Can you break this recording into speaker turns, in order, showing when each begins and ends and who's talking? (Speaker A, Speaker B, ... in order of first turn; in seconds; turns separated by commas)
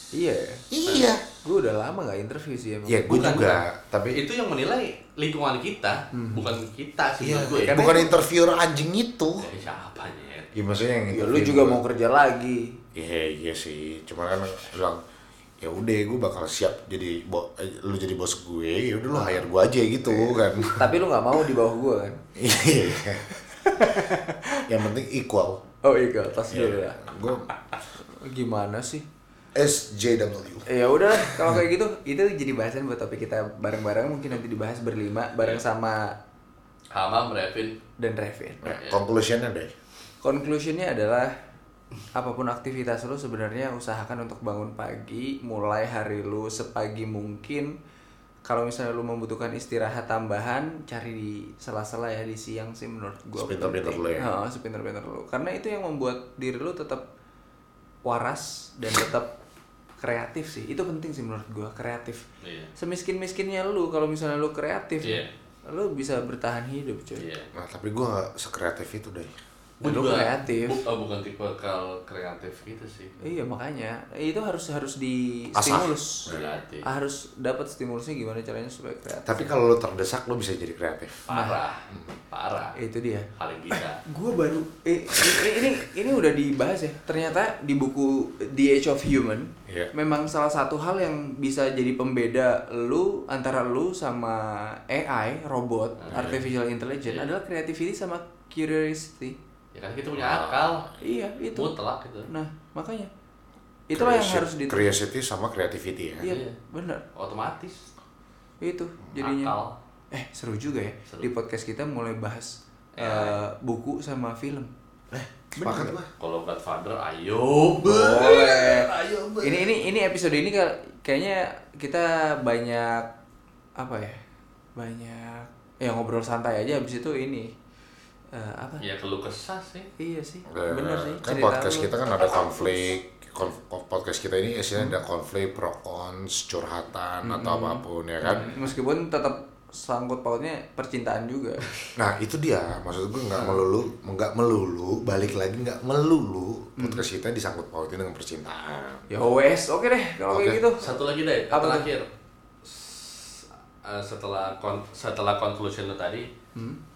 Speaker A: 0.1-0.6, Speaker B: 0.7-1.2, Speaker A: 1.4-3.3, Speaker B: 2.9-4.2, Speaker C: 3.1-8.1, Speaker A: 6.1-6.4, Speaker B: 7.2-9.5, Speaker A: 7.7-8.2, Speaker C: 9.4-10.5, Speaker B: 10.5-11.8, Speaker A: 11.1-12.8, Speaker B: 12.9-15.0, Speaker B: 15.6-20.9, Speaker A: 19.1-19.4, Speaker A: 20.1-22.2, Speaker B: 22.3-25.6, Speaker A: 23.3-24.6, Speaker A: 25.8-27.0, Speaker B: 26.5-27.5, Speaker A: 28.2-29.0, Speaker B: 29.5-31.6, Speaker A: 30.7-36.1, Speaker C: 36.9-37.8, Speaker A: 38.0-38.6, Speaker B: 38.6-39.7, Speaker A: 40.2-41.3, Speaker A: 42.1-47.7, Speaker A: 48.4-57.0, Speaker B: 53.4-54.3, Speaker A: 58.0-59.3, Speaker A: 60.0-62.2, Speaker C: 62.4-62.7, Speaker A: 62.8-67.2, Speaker C: 65.0-65.3, Speaker C: 67.2-67.5, Speaker B: 67.5-69.3, Speaker C: 69.8-73.1, Speaker A: 69.8-70.8, Speaker A: 73.2-76.3, Speaker B: 75.5-76.6, Speaker C: 76.3-76.8, Speaker A: 76.8-79.5, Speaker B: 79.2-81.3, Speaker C: 81.3-82.8, Speaker A: 81.3-81.6, Speaker A: 82.8-83.3, Speaker C: 83.4-84.0, Speaker A: 84.0-99.4, Speaker B: 89.7-89.9, Speaker C: 96.0-96.5, Speaker C: 97.0-97.3, Speaker C: 99.7-100.9, Speaker B: 100.2-100.9, Speaker A: 101.0-101.8, Speaker C: 101.5-102.3, Speaker A: 102.3-103.1, Speaker A: 103.9-105.0, Speaker B: 103.9-106.3, Speaker A: 106.2-107.0, Speaker C: 106.3-106.6, Speaker C: 107.1-107.8, Speaker A: 108.6-109.6, Speaker C: 109.2-109.8, Speaker A: 110.1-114.7, Speaker C: 112.9-113.4, Speaker B: 115.1-116.1, Speaker A: 115.6-116.0, Speaker C: 116.2-119.8, Speaker A: 117.8-123.1, Speaker A: 123.8-124.2, Speaker A: 124.8-127.5, Speaker A: 128.3-128.8, Speaker C: 128.8-129.9, Speaker A: 130.0-131.9, Speaker B: 130.5-138.5, Speaker A: 137.2-141.7, Speaker B: 141.9-149.0, Speaker A: 146.8-147.0, Speaker A: 149.1-151.0, Speaker B: 150.3-150.6, Speaker C: 150.8-152.1, Speaker A: 151.5-151.9, Speaker C: 152.6-156.3